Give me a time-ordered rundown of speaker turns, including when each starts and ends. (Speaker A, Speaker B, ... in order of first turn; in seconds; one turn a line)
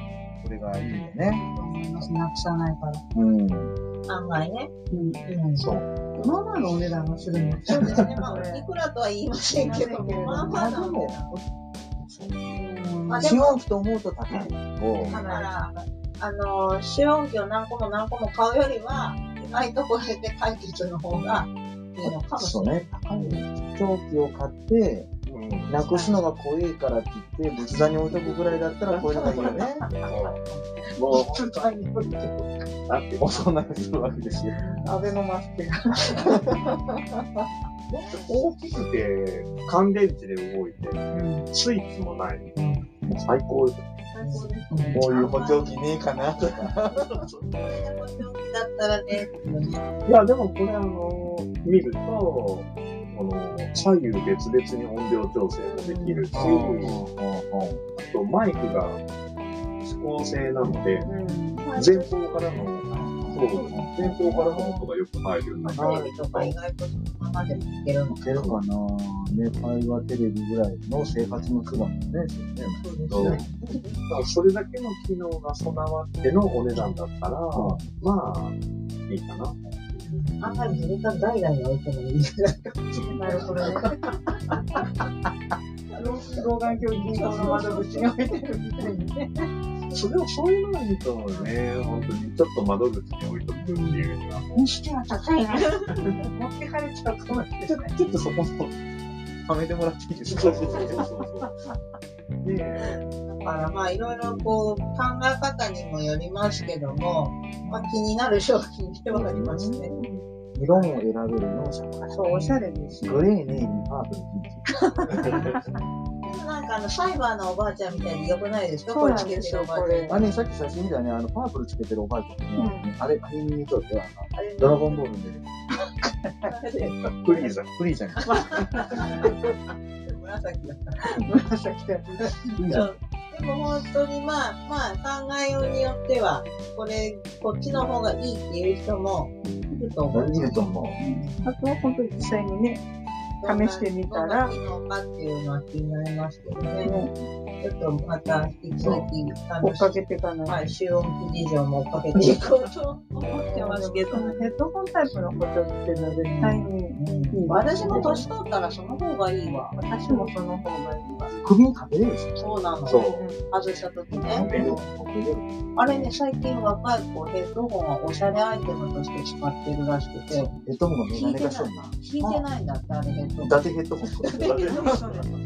Speaker A: 0.4-1.4
Speaker B: 1.3-3.0
Speaker A: 3.1-3.8
Speaker C: 4.0-4.7
Speaker B: 4.9-5.6
Speaker D: 5.6-5.8
Speaker B: 6.2-8.7
Speaker C: 7.6-11.3
Speaker B: 9.5-11.0
Speaker A: 10.5-11.3
Speaker A: 12.0-12.4
Speaker B: 12.5-13.3
Speaker C: 13.1-13.6
Speaker A: 13.2-15.2
Speaker D: 14.3-15.2
Speaker B: 15.1-15.7
Speaker C: 15.1-23.4
Speaker A: 22.0-25.1
Speaker D: 25.2-25.8
Speaker A: 25.7-29.9
Speaker C: 25.9-26.2
Speaker B: 29.1-32.5
Speaker D: 29.1-30.4
Speaker D: 31.0-31.6
Speaker D: 32.9-33.5
Speaker A: 33.2-34.6
Speaker C: 34.6-35.0
Speaker B: 34.8-36.5
Speaker D: 38.1-42.5
Speaker B: 41.1-41.5
Speaker B: 42.6-42.8
Speaker D: 43.0-44.1
Speaker B: 44.1-45.4
Speaker C: 44.2-45.5
Speaker A: 44.9-47.1
Speaker D: 47.1-47.8
Speaker C: 47.5-49.8
Speaker D: 50.0-57.0
Speaker B: 55.6-56.3
Speaker A: 56.3-57.8
Speaker D: 57.9-59.0
Speaker D: 59.8-61.1
Speaker B: 61.0-61.6
Speaker C: 61.2-63.0
Speaker D: 61.7-66.6
Speaker A: 62.9-64.8
Speaker B: 63.5-64.0
Speaker B: 65.5-65.8
Speaker C: 65.7-68.6
Speaker A: 68.1-73.4
Speaker B: 72.8-73.5
Speaker D: 73.1-78.6
Speaker C: 73.1-73.7
Speaker A: 77.5-77.9
Speaker D: 79.1-79.6
Speaker C: 80.0-83.8
Speaker D: 82.9-83.7
Speaker B: 83.2-84.0
Speaker C: 85.9-88.1
Speaker B: 85.9-89.5
Speaker D: 89.9-94.7
Speaker B: 93.6-97.9
Speaker D: 97.7-98.7
Speaker A: 99.5-101.1
Speaker D: 100.3-101.5
Speaker D: 102.4-103.0
Speaker C: 102.8-110.1
Speaker A: 107.6-107.9
Speaker A: 109.1-115.3
Speaker C: 110.7-111.0
Speaker B: 112.1-113.3
Speaker C: 115.0-115.5
Speaker C: 116.2-120.2
Speaker B: 118.9-120.2
Speaker A: 120.1-125.4
Speaker B: 122.6-122.9
Speaker B: 124.3-125.0
Speaker C: 126.5-127.5
Speaker D: 127.2-127.7
Speaker A: 127.7-128.2
Speaker C: 128.2-129.3
Speaker C: 130.0-131.0
Speaker B: 131.3-132.7
Speaker A: 132.6-132.9
Speaker C: 132.7-141.5
Speaker A: 140.1-141.0
Speaker B: 141.0-142.8
Speaker C: 143.4-147.0
Speaker B: 143.4-144.5
Speaker B: 146.8-147.1
Speaker C: 147.6-154.4
Speaker D: 148.8-149.1
Speaker B: 149.6-150.6
Speaker B: 153.4-158.3
Speaker C: 156.4-160.3
Speaker D: 157.8-158.2
Speaker A: 157.9-158.1
Speaker B: 159.7-161.4
Speaker A: 161.4-162.4
Speaker C: 162.3-164.9
Speaker D: 162.8-163.3
Speaker B: 163.1-163.4
Speaker A: 164.2-166.1
Speaker D: 164.3-164.7
Speaker C: 165.8-170.5
Speaker A: 170.6-172.4
Speaker C: 171.1-173.7
Speaker A: 173.4-174.8
Speaker C: 174.2-175.1
Speaker D: 174.4-175.3
Speaker B: 174.7-175.3